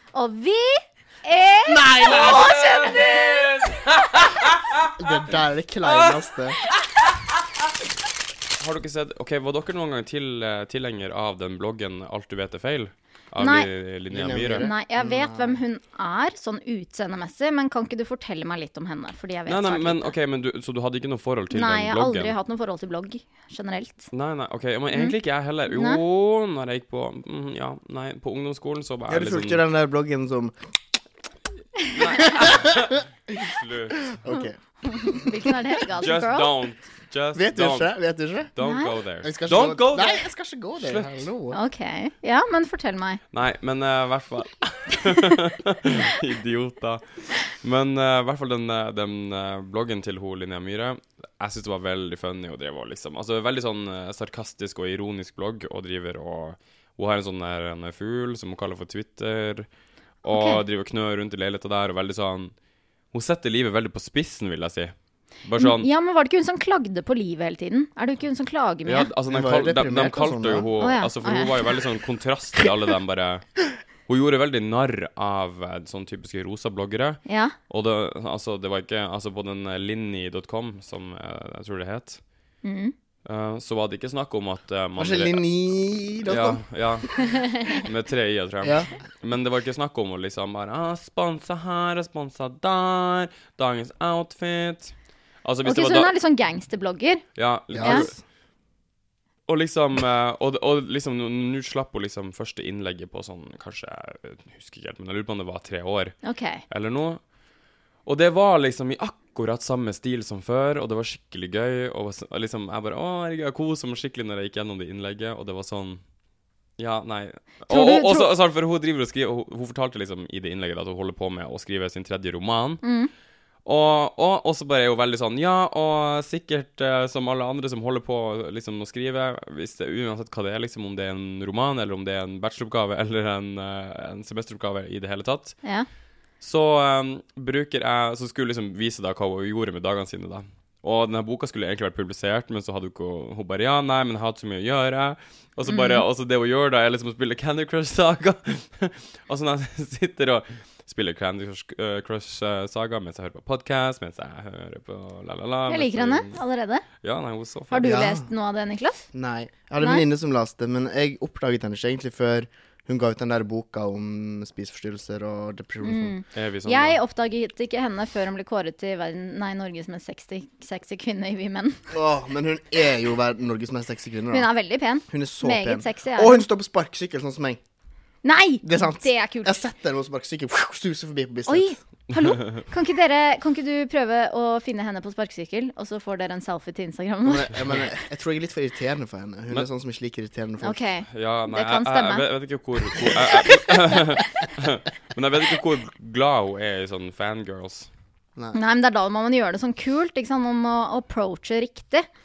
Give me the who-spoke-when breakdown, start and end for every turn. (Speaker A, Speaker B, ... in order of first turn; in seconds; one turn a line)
Speaker A: 0.1-3.5
Speaker B: 1.6-2.5
Speaker C: 2.0-5.2
Speaker B: 5.0-6.6
Speaker C: 5.8-7.7
Speaker C: 8.6-14.7
Speaker A: 13.4-13.7
Speaker B: 14.1-15.6
Speaker A: 14.5-20.1
Speaker C: 19.4-22.3
Speaker A: 21.5-24.1
Speaker C: 24.1-29.6
Speaker A: 25.7-26.0
Speaker B: 29.1-30.5
Speaker C: 31.9-34.1
Speaker B: 32.2-32.9
Speaker B: 34.1-35.6
Speaker A: 34.3-36.5
Speaker C: 35.9-37.9
Speaker B: 37.3-38.5
Speaker C: 38.5-41.2
Speaker A: 38.6-39.0
Speaker B: 39.2-41.6
Speaker A: 41.5-43.2
Speaker C: 43.3-59.7
Speaker C: 60.2-62.5
Speaker A: 60.2-60.6
Speaker C: 63.1-65.9
Speaker A: 65.6-69.1
Speaker C: 68.8-73.4
Speaker B: 69.3-70.7
Speaker A: 70.8-71.8
Speaker C: 74.1-82.2
Speaker A: 77.3-77.5
Speaker A: 82.6-82.9
Speaker C: 83.2-85.4
Speaker B: 85.0-87.3
Speaker C: 86.2-87.1
Speaker A: 87.3-87.8
Speaker C: 87.7-96.1
Speaker B: 88.6-88.9
Speaker A: 95.6-97.3
Speaker C: 97.3-98.2
Speaker B: 97.7-98.2
Speaker A: 97.8-98.0
Speaker C: 99.5-106.1
Speaker A: 106.2-106.6
Speaker C: 106.7-107.2
Speaker C: 108.0-116.0
Speaker C: 116.8-122.8
Speaker A: 117.7-118.3
Speaker A: 122.8-123.1
Speaker C: 123.6-135.6
Speaker C: 136.4-156.4
Speaker A: 145.7-146.1
Speaker A: 155.7-156.8
Speaker C: 157.0-157.8
Speaker A: 157.7-159.1
Speaker B: 157.8-158.3
Speaker B: 159.1-166.2
Speaker A: 159.8-160.0
Speaker A: 165.8-171.8
Speaker C: 166.3-167.0
Speaker B: 171.9-174.5
Speaker A: 174.3-176.5
Speaker B: 175.1-177.6
Speaker A: 178.2-179.6
Speaker B: 178.6-181.8
Speaker A: 181.5-187.5
Speaker C: 182.1-182.6
Speaker B: 187.2-190.8
Speaker A: 190.6-192.3
Speaker C: 191.1-197.9
Speaker A: 198.5-202.0